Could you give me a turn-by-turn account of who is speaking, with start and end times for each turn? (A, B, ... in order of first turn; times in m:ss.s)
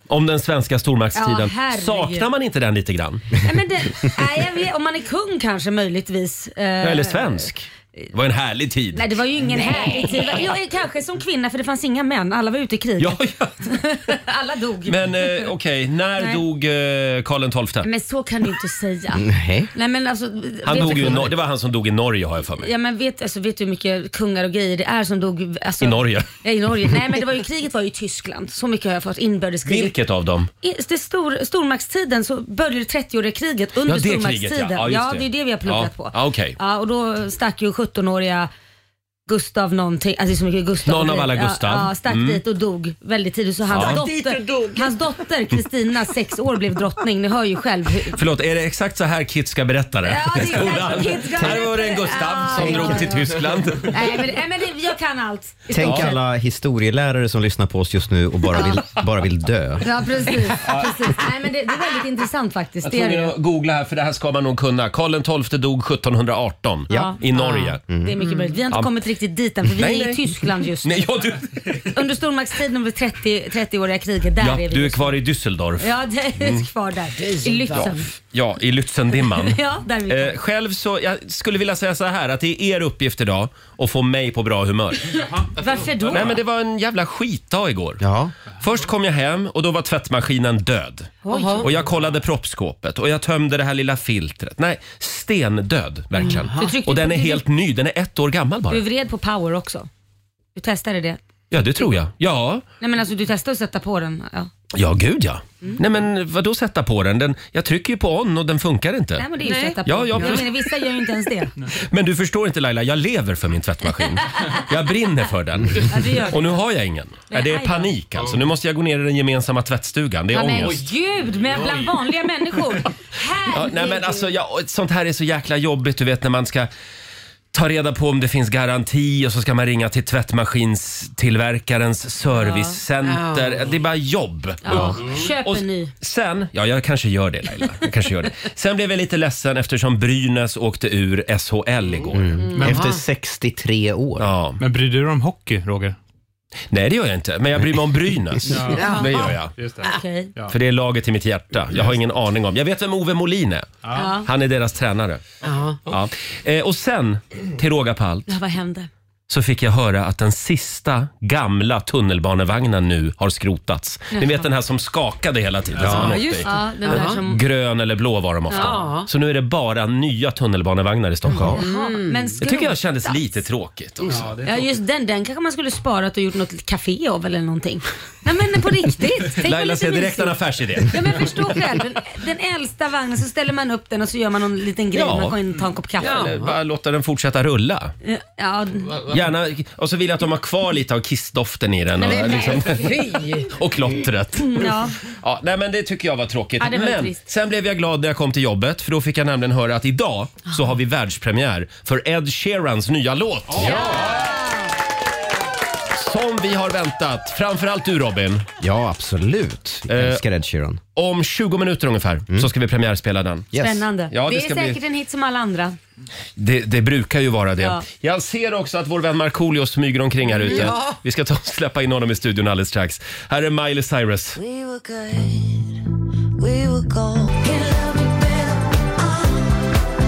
0:00.1-0:03.4 A
0:01.2-0:02.3 B
0:03.4-0:07.4 B
0:06.8-0:09.0 A
0:08.9-0:15.4 B
0:13.0-0:13.5 A
0:14.9-0:17.9 A
0:17.8-0:21.3 B
0:19.1-0:19.7 C
0:20.6-0:22.7 A
0:22.6-0:29.9 B
0:25.8-0:26.3 A
0:29.7-0:30.5 A
0:30.6-0:38.5 B
0:33.9-0:36.6 A
0:39.3-0:48.2 B
0:40.8-0:42.4 A
0:43.7-0:44.0 A
0:48.2-0:54.0 A
0:50.0-0:53.3 B
0:51.4-0:51.7 C
0:52.5-0:53.3 C
0:53.9-0:56.2 B
0:55.7-0:59.9 C
0:55.8-0:56.1 A
0:58.5-0:58.8 B
0:59.8-1:03.3 B
1:00.6-1:00.9 A
1:02.8-1:07.8 A
1:06.9-1:11.0 B
1:07.9-1:08.2 C
1:09.8-1:11.8 A
1:11.8-1:15.2 B
1:14.4-1:16.7 A
1:15.8-1:18.1 B
1:17.2-1:17.9 D
1:17.7-1:25.1 A
1:19.2-1:20.4 B
1:25.4-1:26.4 B
1:26.1-1:28.0 A
1:28.0-1:28.3 C
1:28.6-1:38.8 A
1:31.2-1:31.7 D
1:31.3-1:31.7 B
1:36.2-1:36.7 D
1:36.5-1:37.4 B
1:38.7-1:39.9 B
1:40.6-1:41.2 B
1:41.5-1:42.6 A
1:42.8-1:44.5 B
1:44.7-1:49.3 A
1:49.2-1:51.5 B
1:49.4-1:50.4 D
1:49.8-1:50.5 A
1:51.9-2:00.8 A
1:55.9-1:56.4 B
1:57.3-1:57.9 B
2:00.3-2:04.2 B
2:03.5-2:06.7 A
2:07.5-2:22.5 A
2:12.3-2:12.8 B
2:13.0-2:13.7 D
2:14.6-2:15.9 B
2:22.1-2:24.3 C
2:22.6-2:23.0 D
2:22.6-2:22.9 E
2:24.2-2:24.6 A
2:24.6-2:26.0 E
2:26.7-2:29.5 A
2:28.5-2:30.5 E
2:28.7-2:29.3 D
2:28.9-2:30.3 B
2:30.5-2:35.2 A
2:33.8-2:34.1 E
2:33.9-2:34.3 B
2:35.4-2:35.8 D
2:35.9-2:38.3 A
2:38.3-2:38.9 B
2:39.3-2:51.6 A
2:44.1-2:44.4 B
2:45.8-2:47.2 D
2:45.8-2:46.2 C
2:45.9-2:47.4 B
2:48.5-2:48.9 B
2:48.5-2:49.1 D
2:51.3-2:51.6 C
2:51.5-2:52.4 D
2:51.5-2:53.2 B
2:52.4-2:54.3 A
2:54.1-2:54.5 E
2:54.4-3:06.3 B
2:59.4-3:01.4 A
3:05.0-3:05.3 A
3:06.0-3:07.9 A
3:06.0-3:06.5 D
3:08.0-3:09.0 B
3:09.1-3:24.2 A
3:12.0-3:12.9 B
3:12.0-3:13.5 D
3:14.4-3:14.9 B
3:16.6-3:17.2 B
3:23.6-3:24.7 B
3:25.9-3:28.4 A
3:28.6-3:30.8 C
3:29.9-3:30.2 A
3:31.0-3:33.5 A
3:33.5-3:33.8 C
3:33.6-3:35.8 B
3:34.1-3:34.8 A
3:36.4-3:44.4 A
3:37.6-3:37.8 B
3:40.4-3:40.7 B
3:40.4-3:41.0 D
3:44.4-3:45.8 F
3:46.4-3:49.5 F